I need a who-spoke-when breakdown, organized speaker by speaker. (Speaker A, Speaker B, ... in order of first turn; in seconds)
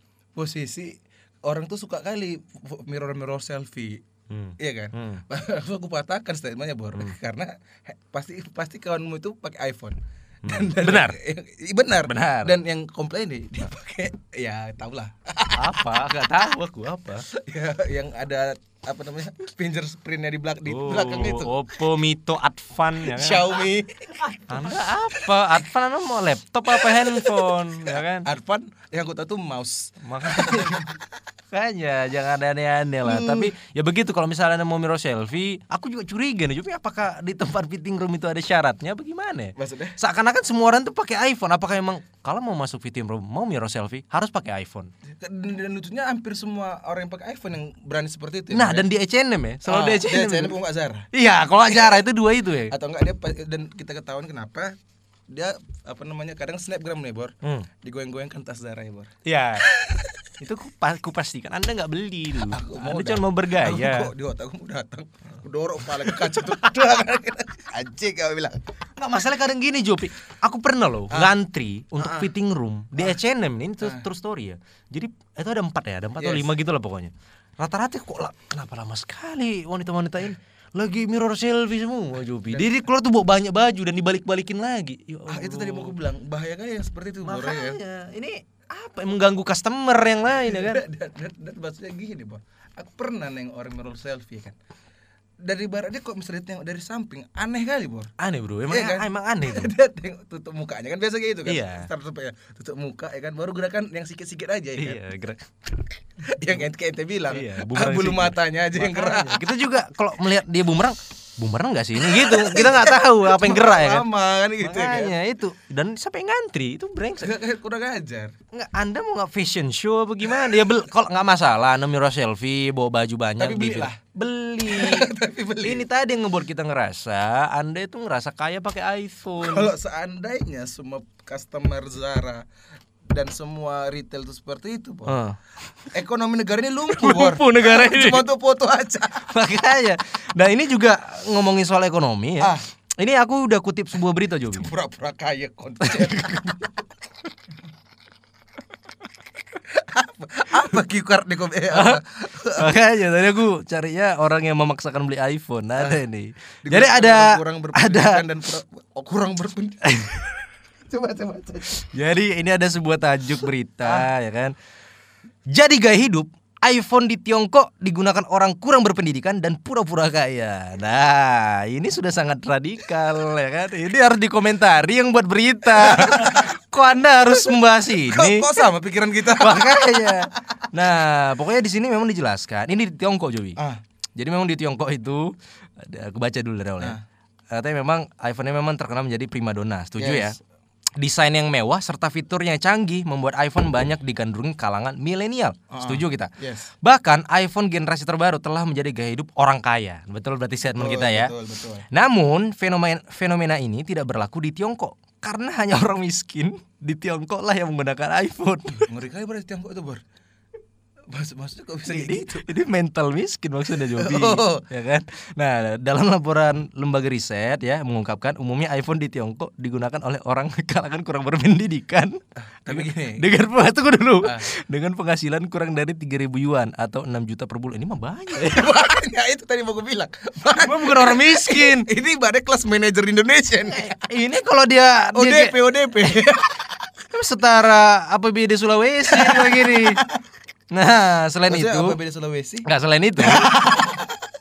Speaker A: 0.4-4.0, 4.6-16.0, 17.3-21.5, 23.0-24.7, 26.7-27.5, 28.2-31.0, 33.0-33.5, 39.6-40.0, 45.1-48.9, 49.7-51.1, 51.7-52.0, 52.7-54.8, 55.3-59.1, 59.7-60.2, 62.5-68.6, 72.0-72.3, 73.8-74.1, 76.2-76.5, 85.3-87.8, 90.3-94.6, 95.4-98.1, 98.7-105.0, 106.2-109.6, 112.0-115.2, 117.2-118.4, 123.4-124.0, 124.7-125.8, 129.4-132.4, 133.1-135.2, 135.9-139.3, 144.5-146.3, 149.7-152.7, 156.6-159.9, 160.9-161.8, 163.8-164.1, 175.8-176.5, 178.0-180.3, 190.0-190.4, 195.7-196.7, 200.7-201.8, 208.9-210.0, 211.1-212.5, 214.0-214.6, 222.6-223.2, 228.4-233.9, 235.1-236.7, 239.1-240.2, 241.5-242.7, 243.2-244.2
Speaker B: 4.3-5.2, 10.4-11.2, 12.1-12.5, 15.5-17.3, 20.7-23.5, 24.5-28.3, 30.0-30.9, 31.5-44.9, 48.5-50.5, 51.1-52.7, 57.4-57.7, 59.2-59.7, 60.4-64.1, 66.0-66.5, 69.0-86.0, 87.2-90.8, 98.2-99.7, 101.5-101.9, 104.8-105.4, 107.3-114.1, 114.6-117.3, 118.5-125.1, 125.6-129.7, 135.1-135.4, 136.9-138.2, 139.3-144.7, 145.8-146.7, 151.7-158.2, 159.9-160.2, 161.9-164.6, 165.5-178.6, 179.4-183.6, 184.2-187.0, 187.5-190.4, 191.0-196.3, 196.8-201.3, 201.9-208.9, 211.9-228.7, 230.6-231.9, 233.7-235.6, 237.1-240.0, 240.7-242.0, 242.7-243.5